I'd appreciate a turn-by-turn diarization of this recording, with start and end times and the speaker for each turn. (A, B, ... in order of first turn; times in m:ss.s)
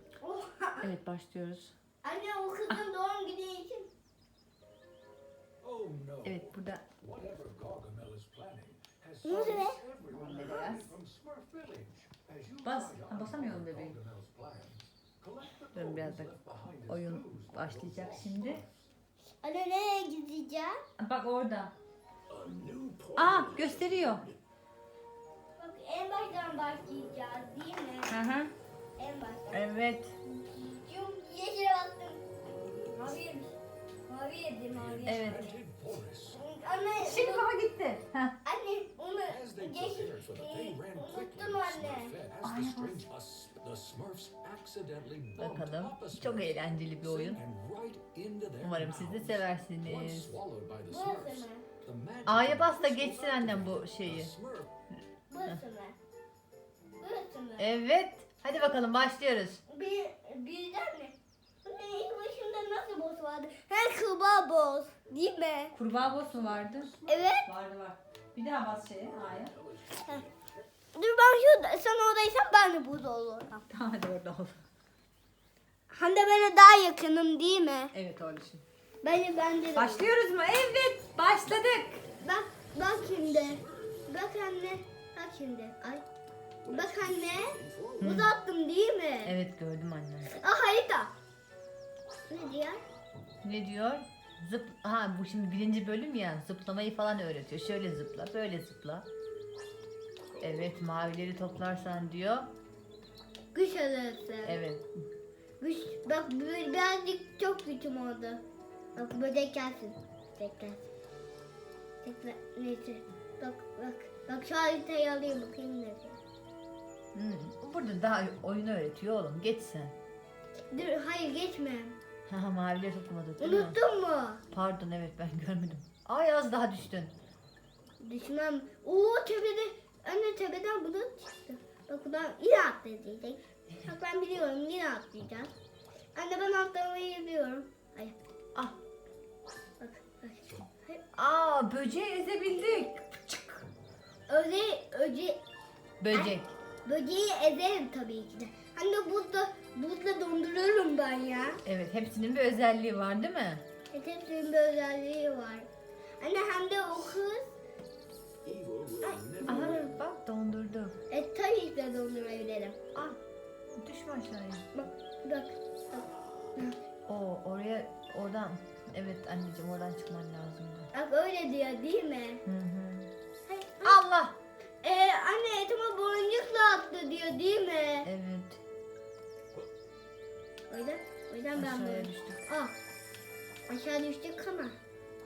0:00.2-0:00.9 A
0:00.8-0:01.8 B
0:02.0-0:03.9 A
0:05.6-0:18.8 C
0:06.2-0:06.9 B
0:09.2-0:09.8 A
0:09.5-0:11.0 B
0:12.6-0:14.0 B
0:15.7-0:18.6 B
0:19.4-0:20.8 A
0:21.0-0:21.7 B
0:22.3-0:24.4 C
0:23.2-0:24.2 B
0:25.6-0:28.2 A
0:28.1-0:28.5 B
0:29.0-0:29.7 A
0:29.5-0:30.1 B
0:30.2-0:33.6 A
0:34.1-0:35.6 A
0:34.7-0:36.4 C
0:35.0-0:35.5 B
0:36.3-0:37.5 A
0:37.0-0:38.4 B
0:38.4-0:42.2 A
0:39.3-0:54.7 C
0:42.4-0:43.1 B
0:45.4-0:47.4 B
0:48.6-0:50.4 B
0:50.9-0:51.6 A
0:52.2-0:54.3 B
0:55.3-0:56.0 A
0:57.0-0:57.7 A
0:57.6-0:59.6 B
0:59.7-1:05.8 A
1:05.8-1:09.6 B
1:07.0-1:07.5 A
1:10.9-1:13.7 A
1:13.7-1:14.6 B
1:15.9-1:17.9 A
1:17.9-1:18.6 B
1:19.0-1:20.1 A
1:19.8-1:22.0 B
1:22.2-1:26.0 A
1:26.7-1:28.1 C
1:26.7-1:29.4 A
1:28.0-1:28.3 B
1:29.2-1:30.3 B
1:30.3-1:31.1 A
1:32.3-1:32.8 A
1:33.4-1:39.1 B
1:40.4-1:42.5 B
1:43.5-1:44.6 A
1:44.4-1:44.9 B
1:45.6-1:48.4 A
1:49.0-1:50.8 A
1:52.0-1:56.2 A
1:57.1-2:00.0 B
2:00.7-2:02.0 A
2:02.3-2:03.8 B
2:03.4-2:04.4 A
2:04.5-2:07.1 B
2:08.0-2:15.5 A
2:16.2-2:18.2 A
2:19.8-2:21.0 A
2:21.2-2:23.6 B
2:24.3-2:25.4 A
2:26.0-2:26.5 B
2:26.1-2:31.6 A
2:31.6-2:33.6 B
2:33.9-2:35.7 A
2:36.2-2:37.5 A
2:38.4-2:40.0 C
2:39.0-2:39.9 A
2:39.4-2:41.0 B
2:41.1-2:42.8 A
2:43.8-2:44.6 B
2:44.7-2:46.8 A
2:47.1-2:50.9 B
2:50.9-2:52.4 A
2:52.4-2:53.1 B
2:53.5-2:54.0 A
2:53.8-2:54.4 B
2:54.8-2:58.1 A
2:58.0-2:58.6 B
3:00.7-3:02.7 A
3:01.6-3:02.4 B
3:03.7-3:04.8 A